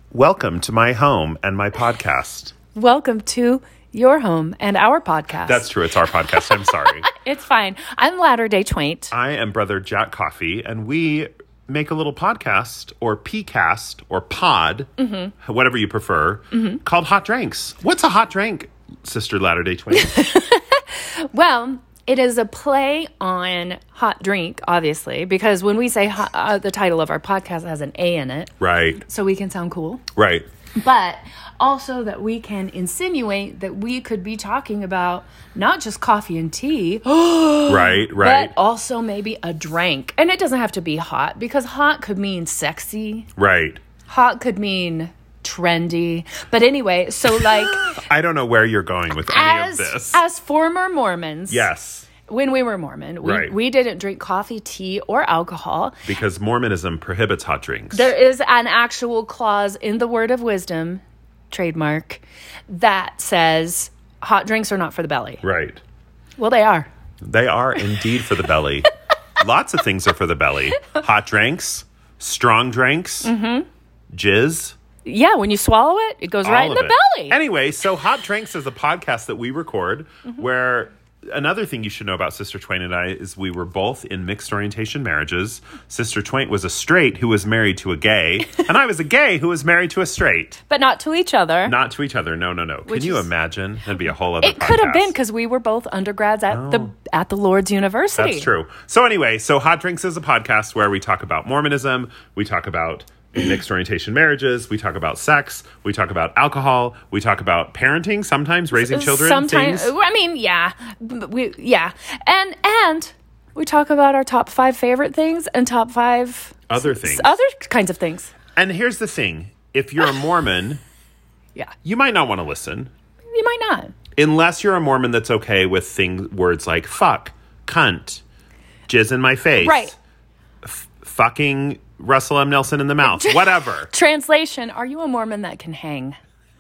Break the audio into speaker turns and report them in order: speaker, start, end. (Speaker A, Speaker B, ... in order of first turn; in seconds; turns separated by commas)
Speaker A: 0.1-2.5, Speaker B: 2.8-5.7, Speaker A: 5.5-7.1, Speaker B: 6.4-9.1, Speaker A: 9.1-20.3, Speaker B: 15.0-15.3, Speaker B: 19.9-30.0, Speaker A: 28.6-29.0, Speaker A: 30.1-30.5, Speaker B: 30.8-43.3, Speaker A: 37.7-38.5, Speaker A: 43.4-43.8, Speaker B: 44.1-48.0, Speaker A: 47.5-50.2, Speaker B: 49.3-51.7, Speaker A: 51.5-52.1, Speaker B: 52.3-55.9, Speaker A: 53.2-53.6, Speaker A: 56.0-58.1, Speaker B: 57.9-65.4, Speaker A: 65.4-65.8, Speaker B: 66.4-66.9, Speaker A: 67.2-73.3, Speaker B: 73.2-73.7, Speaker A: 74.1-74.8, Speaker B: 75.1-77.4, Speaker A: 76.4-90.6, Speaker B: 90.7-91.8, Speaker A: 91.7-95.1, Speaker B: 92.9-93.3, Speaker B: 94.4-98.5, Speaker A: 96.5-96.9, Speaker A: 98.2-109.9, Speaker B: 108.7-118.3, Speaker A: 116.7-117.3, Speaker A: 118.6-120.8, Speaker A: 121.8-122.9, Speaker B: 123.3-124.0, Speaker A: 124.2-128.2, Speaker A: 128.9-129.9, Speaker B: 129.6-129.9, Speaker A: 130.6-133.9, Speaker B: 133.0-136.2